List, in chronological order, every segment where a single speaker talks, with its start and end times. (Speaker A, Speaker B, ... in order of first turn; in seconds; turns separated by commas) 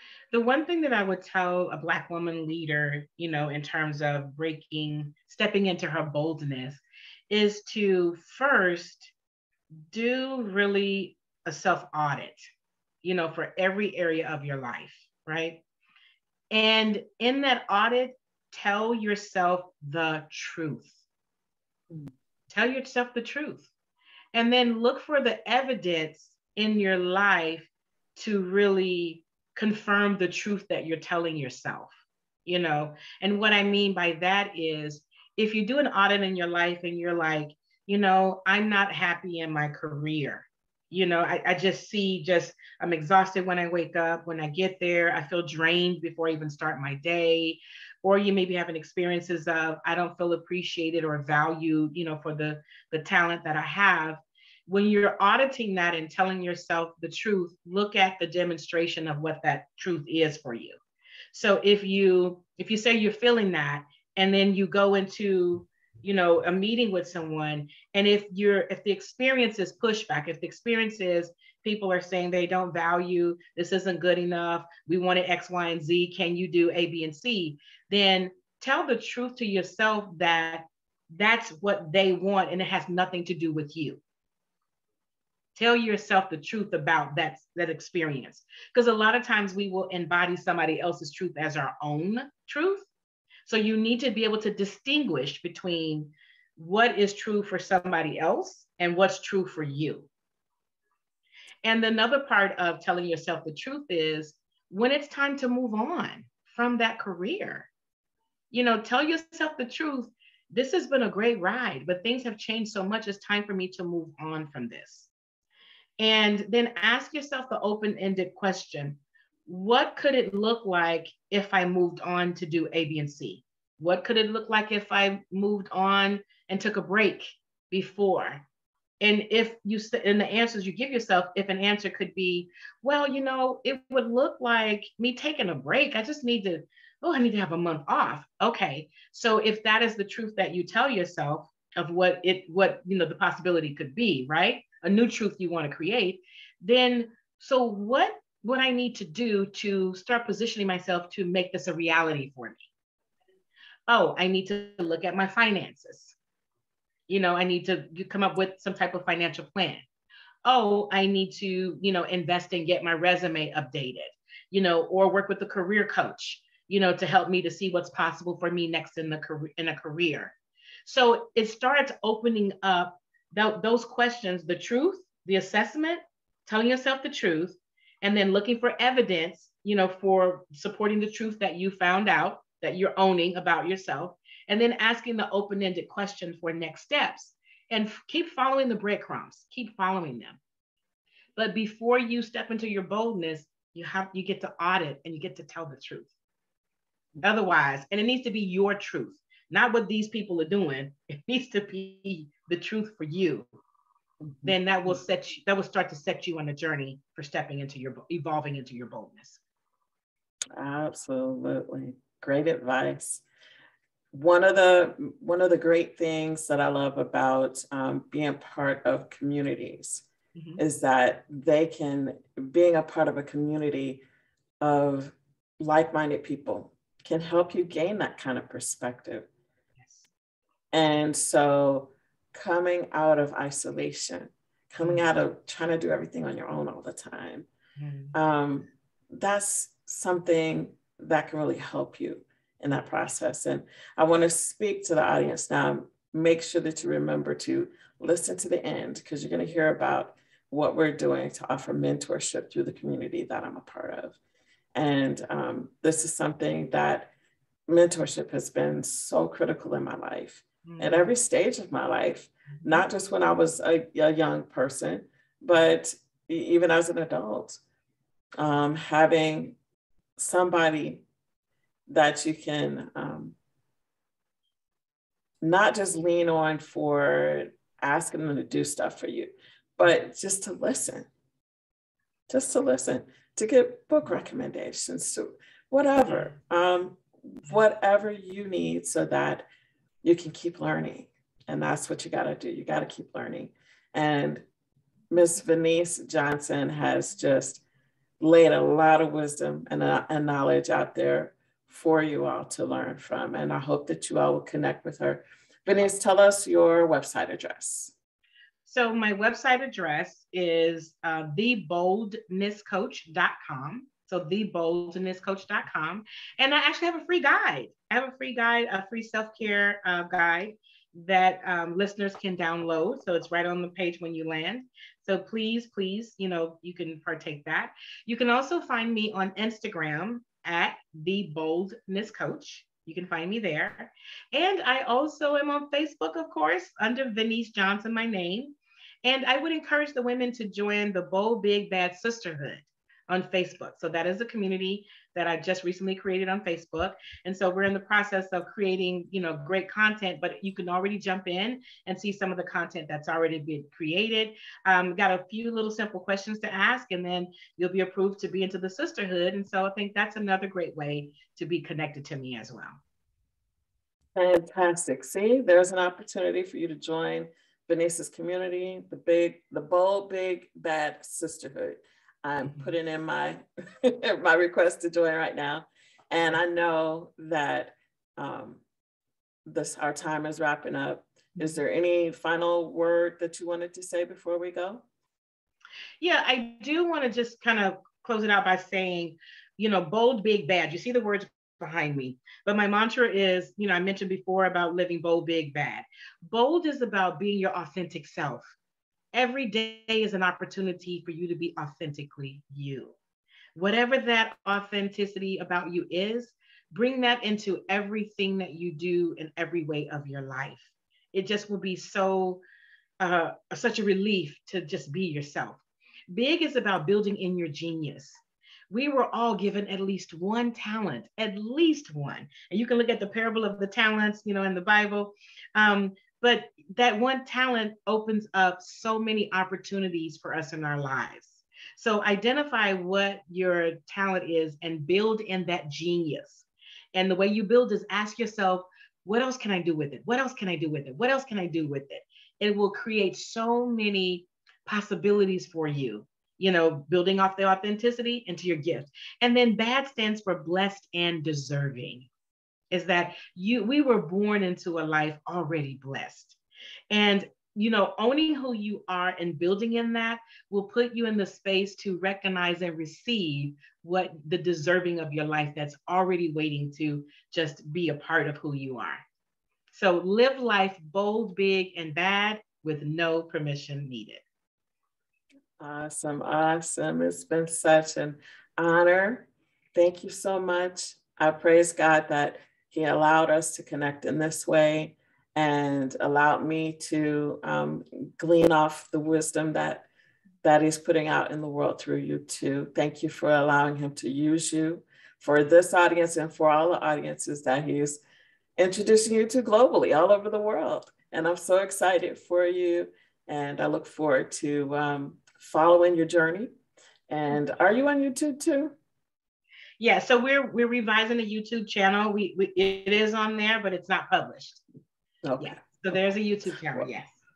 Speaker A: 0.3-9.1, Speaker A: 9.9-12.4, Speaker A: 13.0-15.6, Speaker A: 16.5-21.0, Speaker A: 22.5-23.7, Speaker A: 24.3-31.9, Speaker A: 32.5-60.8, Speaker A: 61.3-84.0, Speaker A: 85.5-92.9, Speaker A: 93.5-100.1, Speaker A: 101.6-107.7, Speaker A: 108.5-115.1, Speaker A: 116.0-128.4, Speaker A: 129.0-152.7, Speaker A: 153.9-156.2, Speaker A: 157.1-159.8, Speaker A: 160.4-190.4, Speaker A: 191.3-196.1, Speaker A: 197.2-203.5, Speaker B: 204.3-204.5, Speaker A: 204.4-209.4, Speaker B: 210.6-213.2, Speaker B: 214.1-220.1, Speaker A: 220.3-220.6, Speaker B: 220.6-224.0, Speaker B: 224.6-229.3, Speaker A: 229.8-230.1, Speaker B: 230.7-237.5, Speaker A: 237.8-238.1, Speaker B: 238.1-254.2, Speaker B: 254.7-257.1, Speaker B: 257.7-267.6, Speaker A: 260.6-261.1, Speaker B: 268.4-269.6, Speaker B: 270.2-271.0, Speaker B: 271.9-273.4, Speaker B: 275.4-281.1, Speaker B: 282.3-289.4, Speaker B: 290.0-294.4, Speaker B: 295.1-297.6, Speaker B: 298.2-307.9, Speaker A: 308.6-362.8, Speaker B: 364.1-378.6, Speaker A: 372.4-372.7, Speaker B: 379.5-384.8, Speaker A: 386.0-398.5, Speaker A: 399.1-402.9, Speaker A: 403.5-412.4, Speaker A: 413.0-418.2, Speaker A: 418.7-452.1, Speaker A: 452.7-456.4, Speaker A: 456.9-469.0, Speaker A: 469.7-474.2, Speaker B: 475.6-489.9, Speaker B: 490.4-498.0, Speaker B: 498.6-506.5, Speaker B: 507.1-508.7, Speaker A: 509.8-514.6, Speaker B: 515.2-515.6, Speaker A: 515.4-517.1